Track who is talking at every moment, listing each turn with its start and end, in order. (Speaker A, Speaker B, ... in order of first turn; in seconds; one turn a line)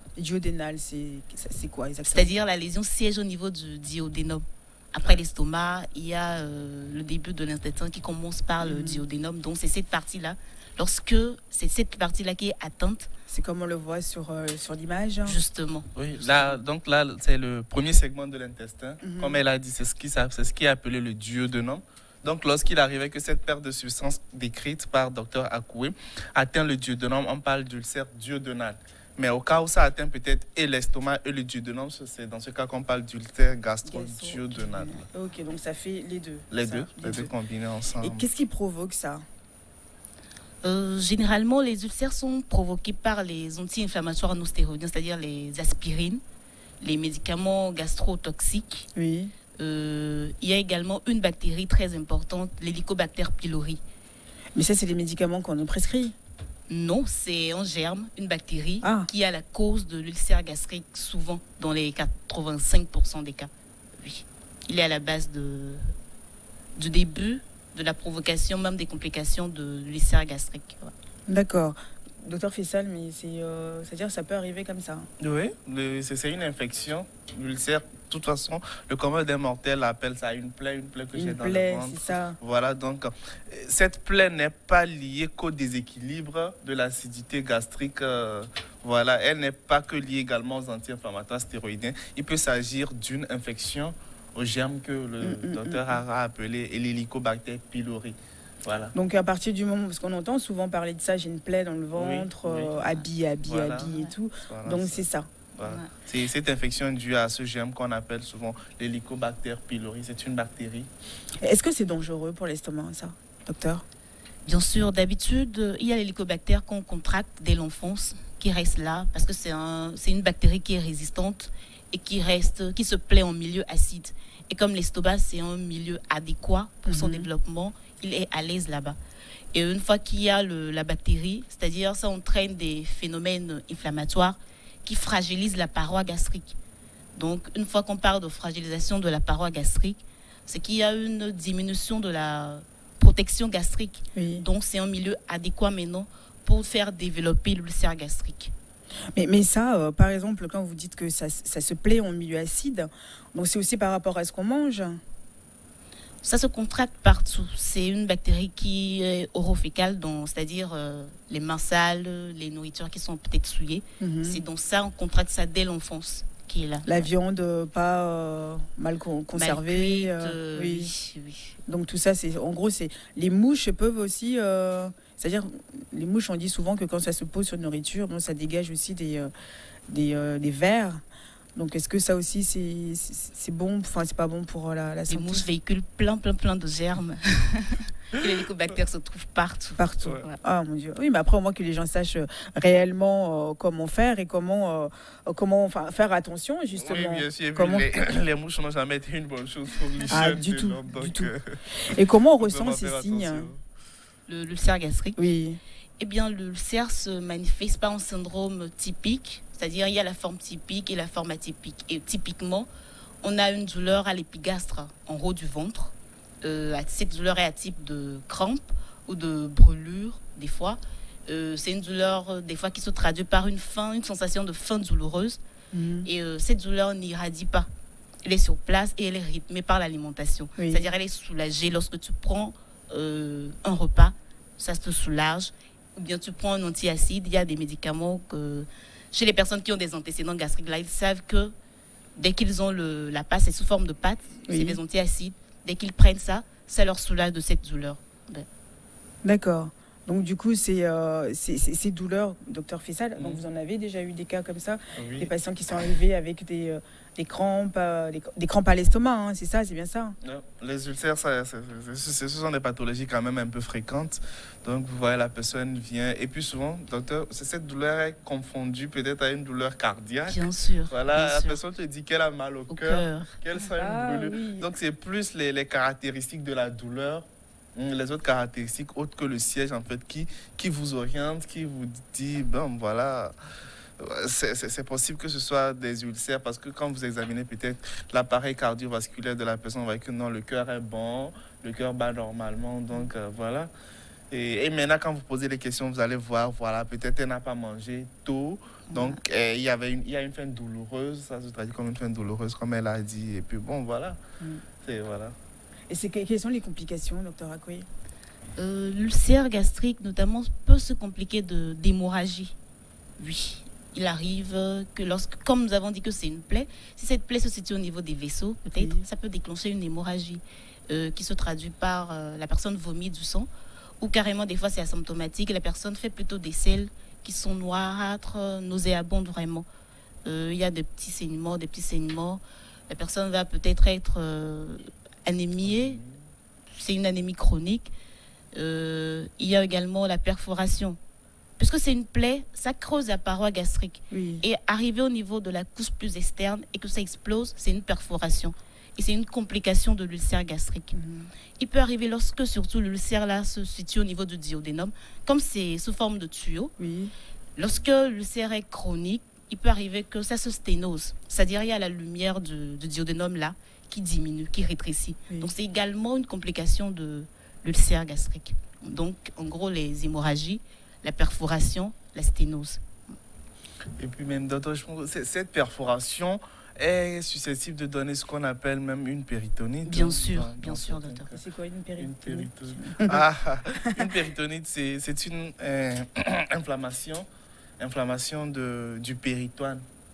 Speaker A: 0.2-2.3
Speaker B: 2.1-13.1
Speaker A: 8.6-9.0
Speaker A: 13.3-15.4
Speaker B: 15.2-16.6
Speaker C: 16.0-35.1
Speaker A: 19.0-19.4
Speaker A: 33.9-34.4
Speaker A: 35.1-37.3
Speaker C: 36.5-38.3
Speaker A: 38.0-39.3
Speaker B: 40.6-46.2
Speaker B: 46.8-48.9
Speaker A: 49.0-49.3
Speaker B: 49.6-53.8
Speaker A: 54.5-56.1
Speaker B: 56.7-65.9
Speaker A: 58.8-59.1
Speaker B: 66.8-70.9
Speaker A: 71.3-75.1
Speaker C: 75.2-98.9
Speaker A: 81.1-82.4
Speaker A: 95.2-95.9
Speaker A: 98.9-105.3
Speaker C: 101.9-110.9
Speaker B: 103.8-104.1
Speaker B: 105.6-105.9
Speaker A: 111.4-113.8
Speaker B: 114.5-129.0
Speaker A: 126.9-127.3
Speaker B: 129.5-136.6
Speaker B: 137.2-148.5
Speaker A: 144.2-144.4
Speaker A: 149.1-155.0
Speaker B: 156.2-167.1
Speaker A: 164.0-164.4
Speaker A: 166.8-170.9
Speaker B: 169.3-171.5
Speaker A: 171.7-179.3
Speaker A: 179.9-181.0
Speaker A: 181.6-185.5
Speaker B: 185.1-190.4
Speaker A: 189.8-197.9
Speaker C: 196.7-201.5
Speaker A: 200.1-203.5
Speaker C: 202.4-203.6
Speaker B: 204.3-205.2
Speaker A: 205.2-205.6
Speaker B: 206.0-212.7
Speaker B: 213.2-225.4
Speaker A: 225.7-226.1
Speaker B: 226.1-227.7
Speaker B: 228.2-241.6
Speaker A: 230.6-230.9
Speaker B: 242.2-248.5
Speaker A: 244.5-244.8
Speaker A: 249.2-260.2
Speaker C: 253.2-253.4
Speaker C: 255.0-255.3
Speaker C: 260.2-283.4
Speaker B: 270.3-271.6
Speaker B: 272.7-273.6
Speaker A: 273.7-274.7
Speaker C: 284.0-293.7
Speaker C: 294.3-304.2
Speaker B: 298.9-299.2
Speaker C: 304.8-305.4
Speaker A: 305.9-307.9
Speaker B: 308.6-312.6
Speaker B: 313.2-323.5
Speaker A: 318.8-319.1
Speaker B: 324.0-329.7
Speaker B: 330.2-336.0
Speaker C: 335.7-336.1
Speaker B: 336.7-337.9
Speaker B: 338.5-341.0
Speaker B: 341.6-351.0
Speaker A: 344.1-344.4
Speaker A: 350.9-351.3
Speaker B: 351.6-356.7
Speaker A: 356.8-357.1
Speaker B: 357.6-372.8
Speaker C: 374.0-381.4
Speaker B: 379.9-381.3
Speaker A: 381.3-383.2
Speaker C: 382.0-387.3
Speaker C: 387.8-389.8